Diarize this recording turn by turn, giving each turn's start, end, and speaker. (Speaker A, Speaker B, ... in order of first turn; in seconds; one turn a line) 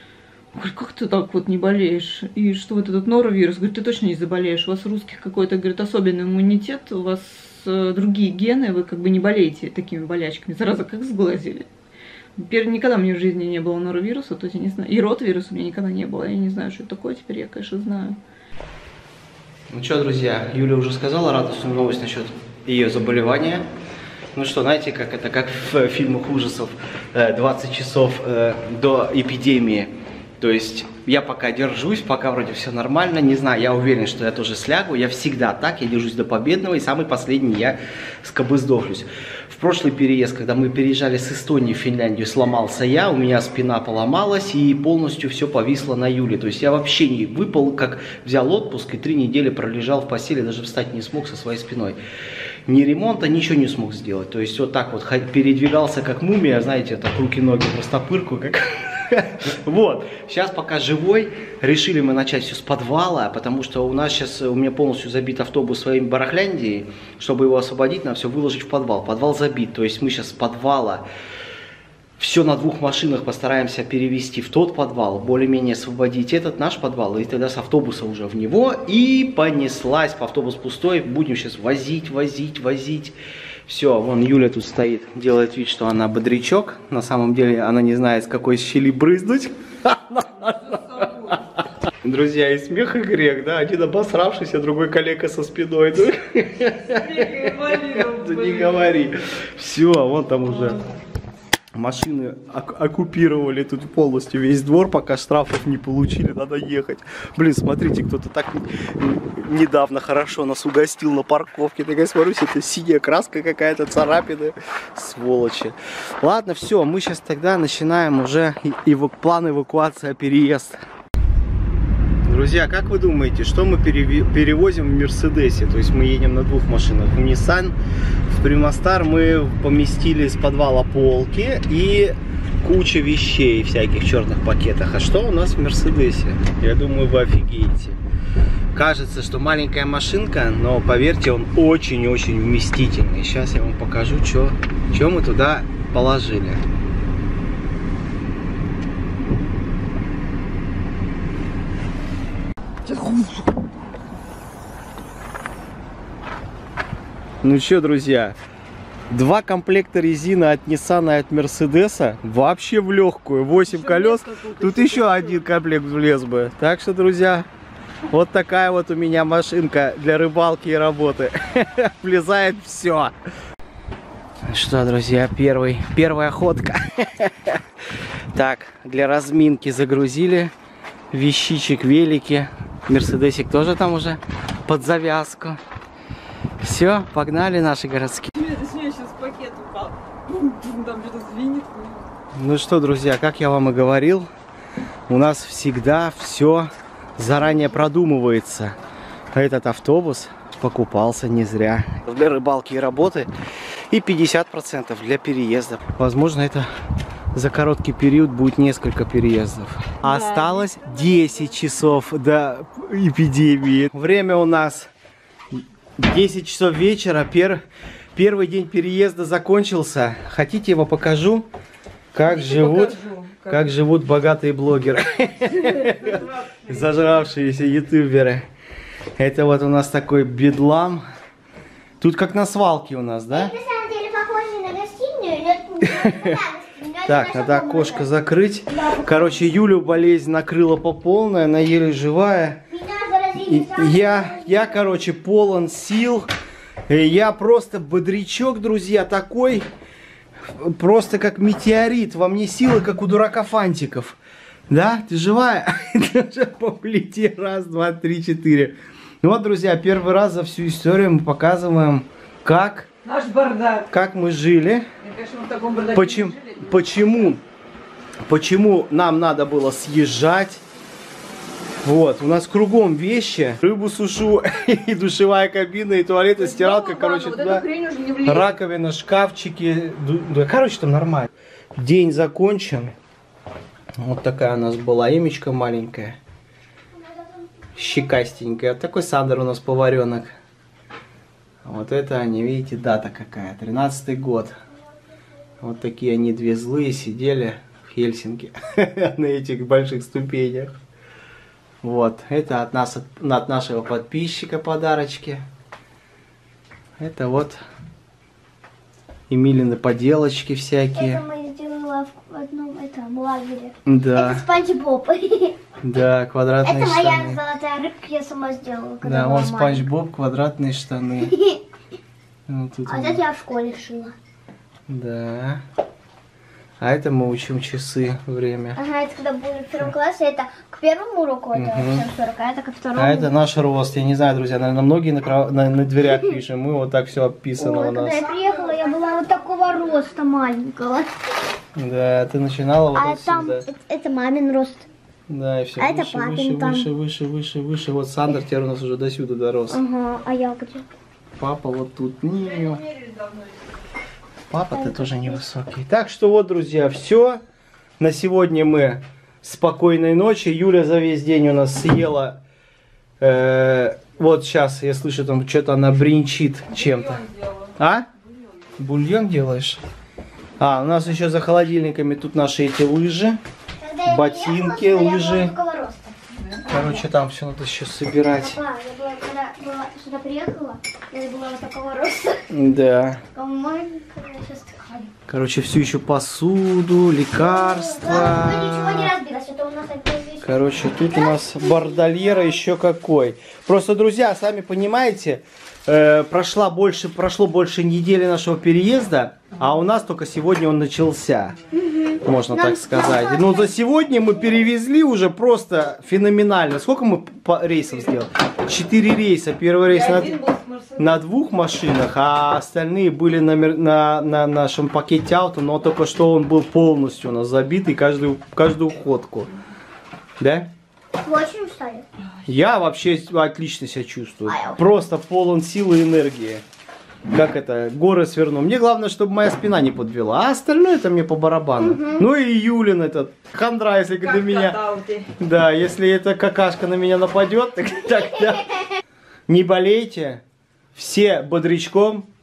Speaker A: 0.5-11.7
Speaker A: 12.3-18.2
Speaker B: 19.7-23.6
Speaker B: 24.3-52.0
Speaker B: 52.7-71.0
Speaker B: 72.2-83.2
Speaker B: 83.7-91.3
Speaker A: 90.4-91.4
Speaker B: 92.0-100.8
Speaker A: 96.8-98.9
Speaker B: 101.7-120.8
Speaker B: 122.3-127.7
Speaker B: 128.3-138.0
Speaker B: 138.7-146.6
Speaker A: 152.8-153.7
Speaker B: 157.4-158.3
Speaker B: 159.1-167.5
Speaker A: 163.7-165.5
Speaker B: 168.1-173.1
Speaker B: 174.5-177.6
Speaker B: 178.3-180.5
Speaker B: 181.1-185.6
Speaker B: 186.6-188.3
Speaker A: 188.3-192.1
Speaker B: 192.3-194.3
Speaker B: 195.1-198.8
Speaker B: 199.3-203.3
Speaker B: 203.9-206.7
Speaker B: 207.3-214.9
Speaker A: 210.0-211.6
Speaker B: 215.5-217.6
Speaker B: 218.1-221.5
Speaker B: 222.1-228.4
Speaker A: 222.3-223.7
Speaker A: 225.6-226.8
Speaker B: 229.2-231.0
Speaker B: 232.0-233.5
Speaker C: 233.3-238.0
Speaker B: 235.8-236.4
Speaker B: 237.0-242.7
Speaker C: 242.7-244.6
Speaker B: 243.4-246.3
Speaker B: 246.9-249.7
Speaker B: 250.4-254.2
Speaker B: 254.7-262.9
Speaker A: 263.0-263.9
Speaker B: 263.9-264.9
Speaker A: 265.0-266.8
Speaker B: 265.9-267.4
Speaker B: 268.3-270.6
Speaker B: 271.8-277.6
Speaker A: 276.4-278.5
Speaker B: 278.2-282.9
Speaker B: 284.0-286.2
Speaker B: 287.8-290.3
Speaker B: 291.6-294.5
Speaker B: 295.6-300.7
Speaker B: 301.8-305.4
Speaker B: 307.0-307.6
Speaker B: 309.3-311.2
Speaker C: 310.9-315.6
Speaker B: 313.9-314.5
Speaker B: 315.8-317.4
Speaker C: 316.6-319.9
Speaker B: 319.0-321.3
Speaker C: 321.3-321.6
Speaker B: 322.5-323.2
Speaker C: 322.9-324.1
Speaker B: 324.9-325.6
Speaker B: 326.8-328.8
Speaker C: 328.8-333.3
Speaker B: 331.5-332.1
Speaker B: 332.9-338.2
Speaker C: 337.6-341.1
Speaker B: 341.8-343.6
Speaker C: 342.9-344.8
Speaker B: 345.3-349.8
Speaker C: 345.8-346.9
Speaker C: 349.7-350.9
Speaker B: 351.4-352.8
Speaker A: 352.4-353.6
Speaker B: 354.5-357.4
Speaker B: 358.0-362.4
Speaker B: 363.2-367.2
Speaker A: 366.7-367.7
Speaker B: 367.8-368.1
Speaker B: 368.8-369.8
Speaker B: 370.6-373.4
Speaker C: 373.8-376.1
Speaker B: 374.0-375.5
Speaker A: 376.4-377.0
Speaker B: 376.7-378.6
Speaker C: 378.2-382.4
Speaker B: 382.5-383.2
Speaker C: 383.3-385.1
Speaker B: 385.3-389.1
Speaker C: 387.4-390.5
Speaker B: 390.4-401.6
Speaker C: 391.1-392.1
Speaker C: 401.7-403.6
Speaker B: 402.2-410.3
Speaker A: 409.9-411.2
Speaker B: 411.0-419.5
Speaker B: 420.4-420.7
Speaker C: 421.2-422.0
Speaker B: 422.4-426.6
Speaker C: 424.5-424.8
Speaker B: 427.3-434.8
Speaker C: 431.9-432.2
Speaker A: 434.2-435.3
Speaker B: 435.4-438.9
Speaker B: 439.5-440.4
Speaker B: 440.9-442.3